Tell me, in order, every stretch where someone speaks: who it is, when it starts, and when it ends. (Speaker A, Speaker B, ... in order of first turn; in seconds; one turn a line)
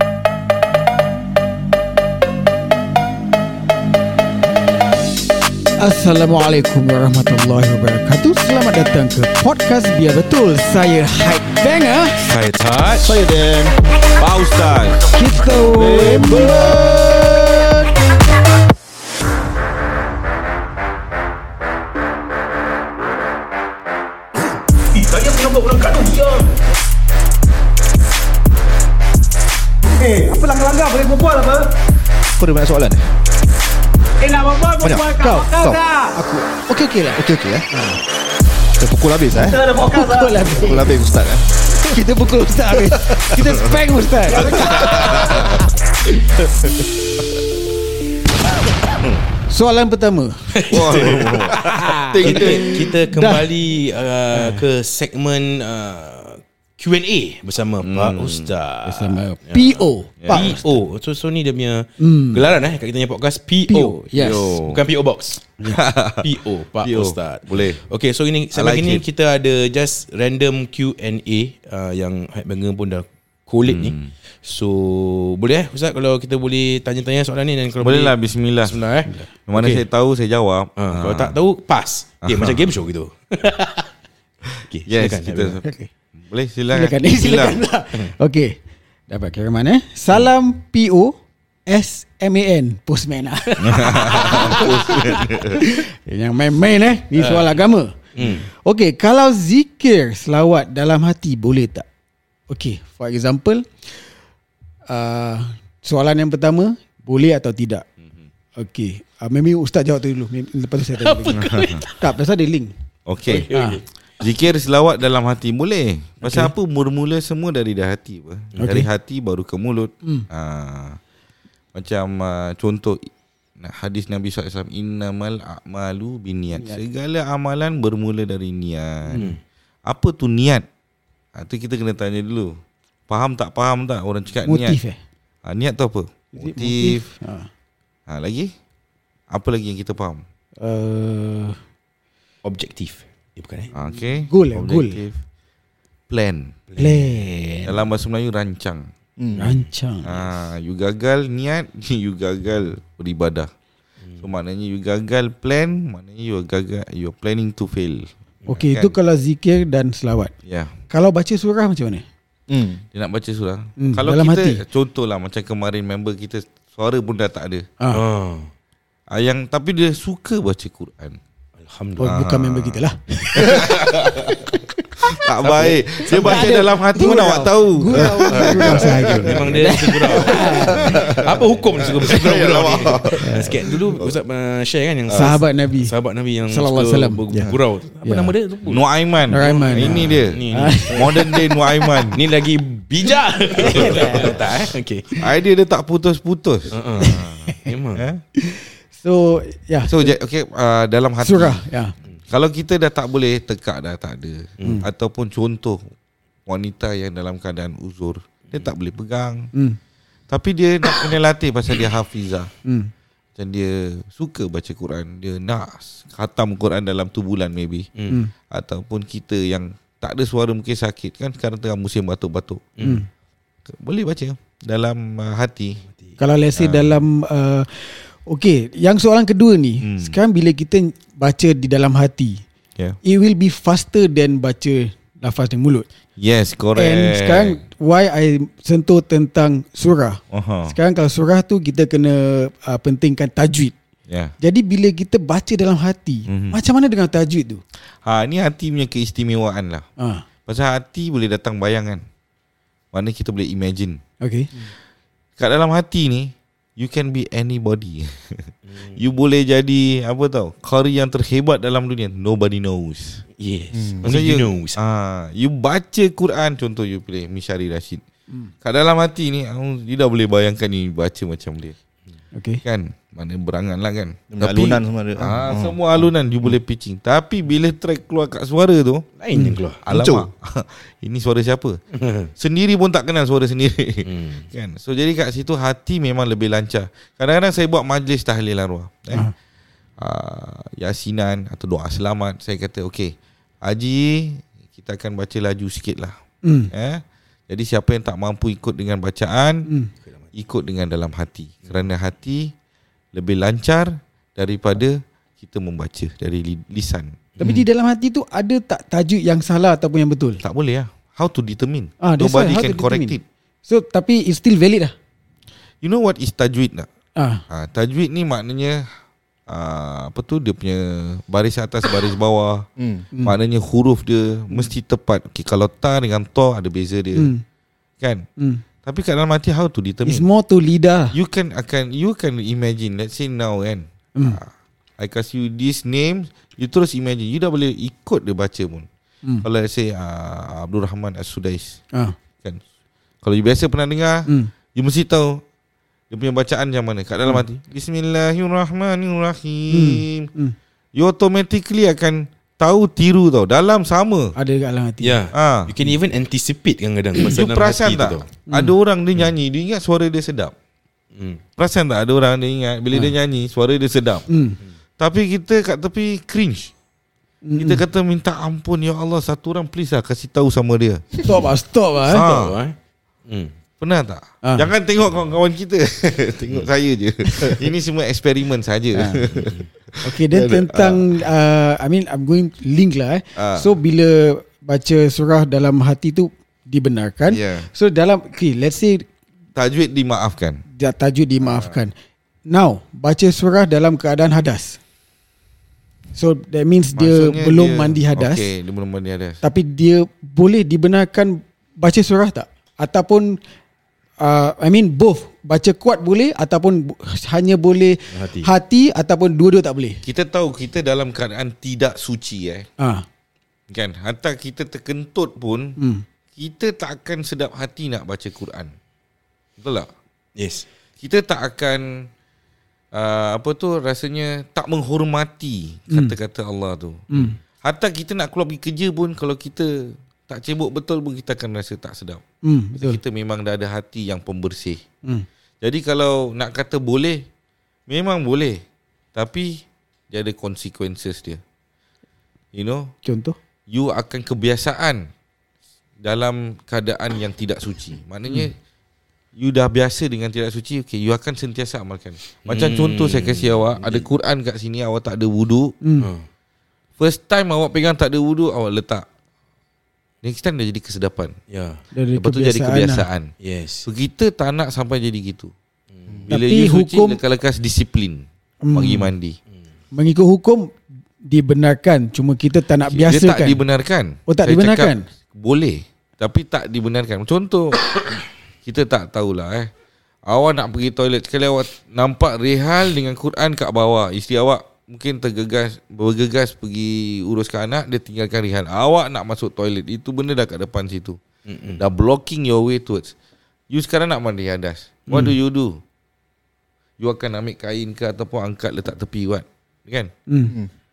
Speaker A: 5.8-12.2
Speaker B: 12.2-13.1
Speaker C: 12.4-13.2
Speaker D: 13.0-13.8
Speaker B: 14.2-15.0
Speaker A: 15.1-16.5
Speaker D: 15.7-16.9
Speaker B: 16.1-17.0
Speaker C: 25.0-26.5
Speaker E: 29.9-31.8
Speaker D: 32.4-33.1
Speaker E: 34.2-36.1
Speaker D: 34.8-35.8
Speaker A: 35.2-35.5
Speaker A: 36.1-38.0
Speaker D: 37.2-37.7
Speaker D: 38.8-39.6
Speaker E: 39.3-40.5
Speaker A: 39.9-41.0
Speaker D: 40.5-42.0
Speaker A: 41.9-45.5
Speaker D: 42.8-43.4
Speaker E: 44.3-45.5
Speaker D: 44.4-45.0
Speaker B: 44.8-45.6
Speaker A: 49.5-50.3
Speaker C: 50.5-51.5
Speaker B: 50.7-52.5
Speaker A: 51.6-53.5
Speaker D: 52.1-52.8
Speaker C: 52.2-65.5
Speaker A: 54.3-54.6
Speaker B: 57.8-58.5
Speaker A: 58.8-60.6
Speaker B: 60.2-60.6
Speaker A: 62.0-62.4
Speaker A: 63.7-64.6
Speaker B: 64.1-64.8
Speaker B: 65.7-67.8
Speaker C: 66.2-79.8
Speaker B: 68.5-69.0
Speaker B: 73.7-74.1
Speaker B: 77.8-78.8
Speaker B: 79.5-81.4
Speaker C: 80.8-83.9
Speaker B: 82.2-82.7
Speaker C: 84.6-85.6
Speaker B: 84.9-85.6
Speaker A: 85.6-85.9
Speaker B: 86.2-87.6
Speaker A: 86.7-88.6
Speaker A: 89.1-101.8
Speaker B: 93.6-95.7
Speaker C: 94.1-94.6
Speaker C: 97.1-97.6
Speaker C: 98.2-98.5
Speaker A: 102.5-103.7
Speaker A: 104.9-107.8
Speaker A: 108.6-112.7
Speaker C: 111.0-112.0
Speaker B: 111.3-111.8
Speaker B: 113.1-113.5
Speaker C: 113.3-113.9
Speaker A: 113.5-113.8
Speaker B: 114.2-121.0
Speaker A: 118.6-118.9
Speaker A: 120.0-120.3
Speaker B: 121.7-129.3
Speaker A: 126.5-126.8
Speaker C: 129.1-129.4
Speaker B: 129.9-130.7
Speaker B: 131.3-132.6
Speaker B: 133.1-134.8
Speaker A: 134.4-135.0
Speaker B: 135.4-137.0
Speaker A: 136.3-137.5
Speaker B: 138.1-138.5
Speaker B: 139.3-140.2
Speaker A: 140.6-141.6
Speaker C: 142.4-143.7
Speaker B: 143.7-145.2
Speaker A: 143.9-145.0
Speaker B: 146.1-146.6
Speaker C: 146.7-147.2
Speaker A: 146.8-147.8
Speaker B: 147.7-148.9
Speaker D: 149.2-149.4
Speaker C: 149.3-149.7
Speaker A: 149.4-150.1
Speaker B: 150.1-153.5
Speaker C: 154.0-154.3
Speaker B: 154.2-159.0
Speaker A: 158.5-160.3
Speaker B: 160.5-160.7
Speaker A: 160.9-162.1
Speaker D: 162.5-162.8
Speaker B: 162.9-167.7
Speaker A: 163.8-164.6
Speaker C: 167.9-168.5
Speaker B: 169.1-171.2
Speaker C: 171.6-172.2
Speaker A: 172.0-174.8
Speaker B: 172.0-172.8
Speaker B: 173.3-174.3
Speaker B: 175.1-179.7
Speaker C: 175.4-176.4
Speaker A: 176.1-181.1
Speaker C: 178.3-191.3
Speaker D: 180.7-181.3
Speaker D: 182.0-183.3
Speaker A: 183.2-183.7
Speaker B: 185.1-185.3
Speaker A: 185.1-185.9
Speaker A: 186.5-187.5
Speaker A: 188.0-188.3
Speaker B: 188.7-192.2
Speaker A: 189.3-191.9
Speaker C: 192.1-195.2
Speaker A: 193.6-194.4
Speaker B: 193.7-194.3
Speaker B: 195.2-198.2
Speaker C: 196.7-198.0
Speaker A: 197.0-197.7
Speaker A: 198.4-200.1
Speaker B: 199.9-201.6
Speaker A: 201.2-201.9
Speaker B: 202.3-205.9
Speaker C: 204.6-204.8
Speaker B: 206.5-209.5
Speaker B: 210.3-212.5
Speaker A: 212.7-212.9
Speaker B: 213.4-217.9
Speaker B: 218.5-222.7
Speaker C: 222.8-223.0
Speaker A: 222.8-223.1
Speaker B: 223.7-225.8
Speaker A: 226.2-232.4
Speaker B: 226.6-227.0
Speaker B: 229.8-230.2
Speaker A: 233.0-235.9
Speaker B: 236.2-237.6
Speaker A: 236.8-243.8
Speaker B: 240.3-240.8
Speaker B: 244.1-244.3
Speaker A: 244.4-247.6
Speaker B: 246.3-246.6
Speaker B: 248.0-249.8
Speaker A: 250.0-250.2
Speaker B: 250.5-252.0
Speaker B: 252.9-254.0
Speaker A: 254.2-254.5
Speaker B: 255.4-263.2
Speaker C: 258.7-259.0
Speaker C: 263.4-264.8
Speaker D: 263.7-264.1
Speaker B: 264.0-268.0
Speaker B: 268.6-271.8
Speaker A: 272.3-272.6
Speaker B: 272.6-279.1
Speaker D: 274.3-275.8
Speaker C: 279.2-279.8
Speaker B: 279.8-281.8
Speaker D: 279.9-280.3
Speaker C: 281.9-282.3
Speaker B: 282.4-289.3
Speaker C: 284.1-284.5
Speaker B: 290.0-296.2
Speaker A: 296.4-296.7
Speaker B: 296.7-299.7
Speaker B: 300.3-302.5
Speaker B: 303.1-307.1
Speaker C: 307.4-307.6
Speaker A: 307.4-310.4
Speaker B: 310.4-313.2
Speaker A: 312.0-314.9
Speaker B: 315.8-316.9
Speaker A: 317.1-317.4
Speaker B: 317.5-318.8
Speaker B: 319.5-322.7
Speaker D: 322.8-323.1
Speaker B: 323.2-327.3
Speaker A: 327.1-327.4
Speaker B: 328.0-328.2
Speaker A: 328.4-328.6
Speaker B: 328.8-330.2
Speaker A: 330.0-331.1
Speaker B: 331.1-338.9
Speaker B: 339.4-341.8
Speaker B: 343.2-345.4
Speaker B: 346.1-350.3
Speaker A: 349.7-350.5
Speaker B: 350.9-354.3
Speaker A: 354.4-355.2
Speaker C: 355.0-358.3
Speaker B: 355.3-355.8
Speaker B: 357.2-360.5
Speaker A: 358.5-358.7
Speaker C: 361.1-361.4
Speaker B: 361.6-364.2
Speaker A: 364.3-364.6
Speaker B: 365.0-366.7
Speaker A: 367.4-367.8
Speaker B: 367.6-371.2
Speaker A: 371.2-372.2
Speaker B: 372.1-372.6
Speaker C: 372.1-372.8
Speaker C: 373.3-373.5
Speaker B: 373.8-381.0
Speaker A: 374.4-374.7
Speaker A: 378.9-379.2
Speaker C: 379.2-379.6
Speaker A: 380.0-389.1
Speaker B: 383.3-383.8
Speaker B: 387.3-387.7
Speaker B: 389.6-390.6
Speaker A: 390.8-391.9
Speaker B: 391.4-391.8
Speaker A: 392.5-394.8
Speaker A: 396.1-398.4
Speaker B: 396.9-399.4
Speaker A: 399.4-403.4
Speaker A: 404.2-410.0
Speaker C: 408.1-408.5
Speaker B: 410.0-412.7
Speaker A: 412.8-413.0
Speaker B: 413.7-415.8
Speaker A: 415.8-416.0
Speaker B: 416.4-418.7
Speaker B: 419.6-419.9
Speaker C: 420.4-420.6
Speaker B: 421.0-422.1
Speaker B: 422.9-432.2
Speaker A: 425.9-426.1
Speaker A: 427.1-427.4
Speaker A: 432.4-433.0
Speaker B: 432.8-434.8
Speaker B: 435.6-437.2
Speaker B: 437.9-438.6
Speaker B: 439.1-441.4
Speaker B: 442.5-442.9
Speaker A: 443.0-443.4
Speaker B: 443.7-445.1
Speaker B: 446.0-448.5
Speaker B: 449.3-455.7
Speaker C: 452.4-454.1
Speaker A: 455.8-456.1
Speaker C: 456.0-456.2
Speaker B: 457.0-459.1
Speaker B: 460.2-461.4
Speaker C: 461.5-461.8
Speaker A: 461.9-463.1
Speaker B: 462.1-463.3
Speaker C: 463.4-463.9
Speaker B: 463.8-465.5
Speaker C: 465.9-466.3
Speaker B: 466.3-469.4
Speaker A: 466.3-467.2
Speaker A: 468.6-469.1
Speaker A: 469.9-473.6
Speaker B: 472.9-477.8
Speaker A: 474.3-475.1
Speaker B: 478.6-479.7
Speaker B: 480.3-491.2
Speaker C: 491.4-491.8
Speaker B: 491.8-493.1
Speaker B: 493.7-495.8
Speaker B: 497.0-500.1
Speaker A: 500.3-500.5